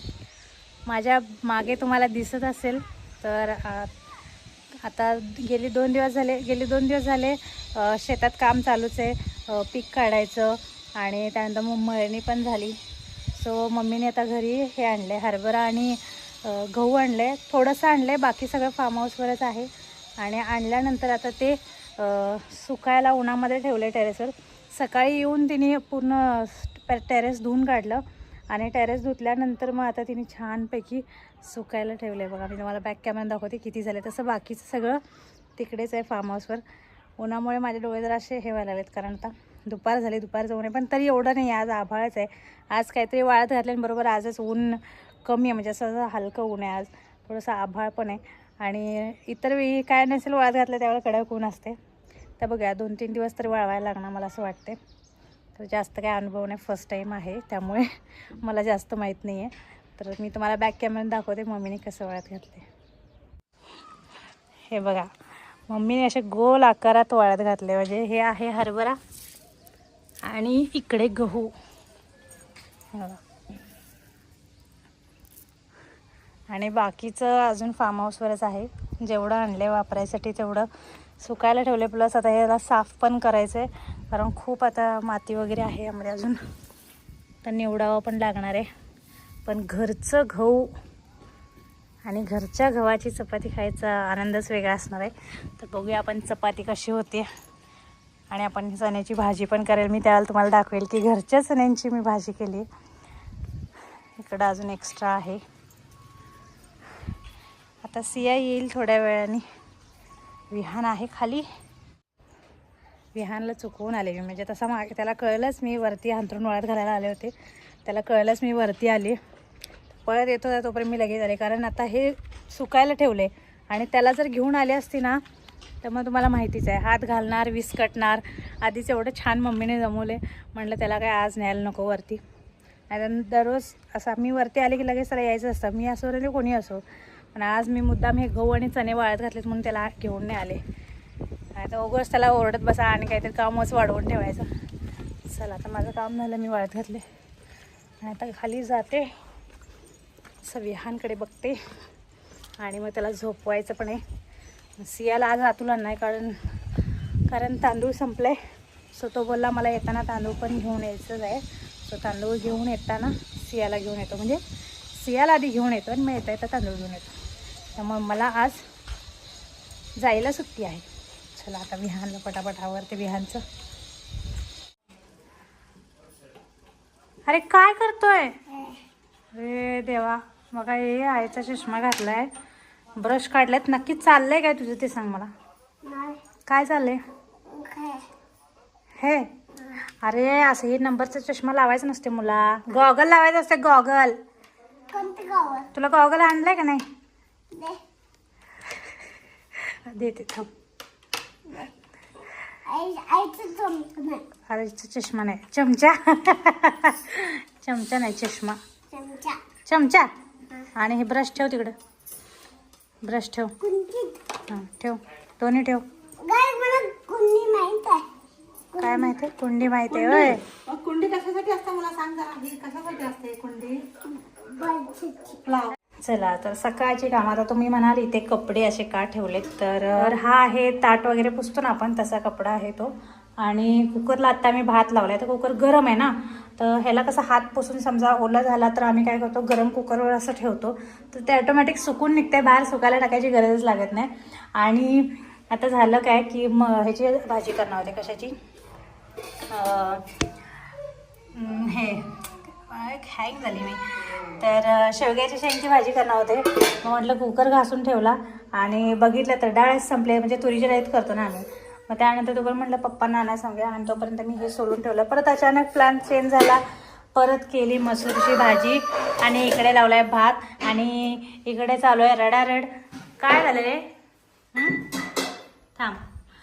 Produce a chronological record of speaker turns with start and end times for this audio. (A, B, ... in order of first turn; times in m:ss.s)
0:00.9-0:03.9 A
0:04.8-0:12.8 A
0:13.4-0:35.0 A
0:35.6-0:36.6 A
0:37.2-0:51.8 A
0:52.4-0:54.8 A
0:55.6-1:02.7 A
1:04.7-1:05.1 A
1:05.7-1:09.0 A
1:10.2-1:11.5 A
1:12.9-1:13.2 A
1:16.5-1:20.7 A
1:21.2-1:26.4 A
1:27.4-1:28.7 A
1:29.5-1:30.7 A
1:32.1-1:37.3 A
1:38.3-1:42.6 A
1:44.2-1:45.4 A
1:47.8-1:49.4 A
1:50.5-1:51.4 A
1:53.2-1:57.3 A
1:57.8-1:59.2 A
1:59.9-2:05.2 A
2:05.8-2:12.2 A
2:12.9-2:16.8 A
2:17.3-2:20.6 A
2:21.6-2:24.5 A
2:25.3-2:27.0 A
2:28.0-2:29.1 A
2:30.4-2:31.6 A
2:32.6-2:34.0 A
2:34.8-2:36.4 A
2:37.3-2:38.4 A
2:38.9-2:44.4 A
2:44.9-2:47.1 A
2:47.8-2:48.6 A
2:50.0-2:53.4 A
2:57.3-2:58.4 A
2:59.3-3:02.3 A
3:03.0-3:05.3 A
3:05.8-3:06.2 B
3:06.5-3:07.0 A
3:07.5-3:08.1 B
3:09.0-3:14.2 A
3:14.9-3:15.7 B
3:15.7-3:16.8 A
3:17.5-3:17.8 B
3:19.7-3:20.5 A
3:22.6-3:24.2 B
3:24.5-3:28.6 A
3:28.9-3:29.4 B
3:29.6-3:30.1 A
3:30.7-3:31.8 A
3:33.0-3:33.6 A
3:33.6-3:34.2 B
3:34.5-3:35.8 A
3:36.2-3:38.1 B
3:38.7-3:39.0 B
3:38.8-3:40.4 A
3:39.9-3:43.8 C
3:44.1-3:45.4 B
3:45.3-3:45.8 C
3:46.0-4:08.3 A
4:09.5-4:10.1 A
4:11.3-4:26.6 A
4:27.2-4:32.7 A
4:33.2-4:33.9 A
4:34.5-4:34.8 A
4:35.8-4:36.1 A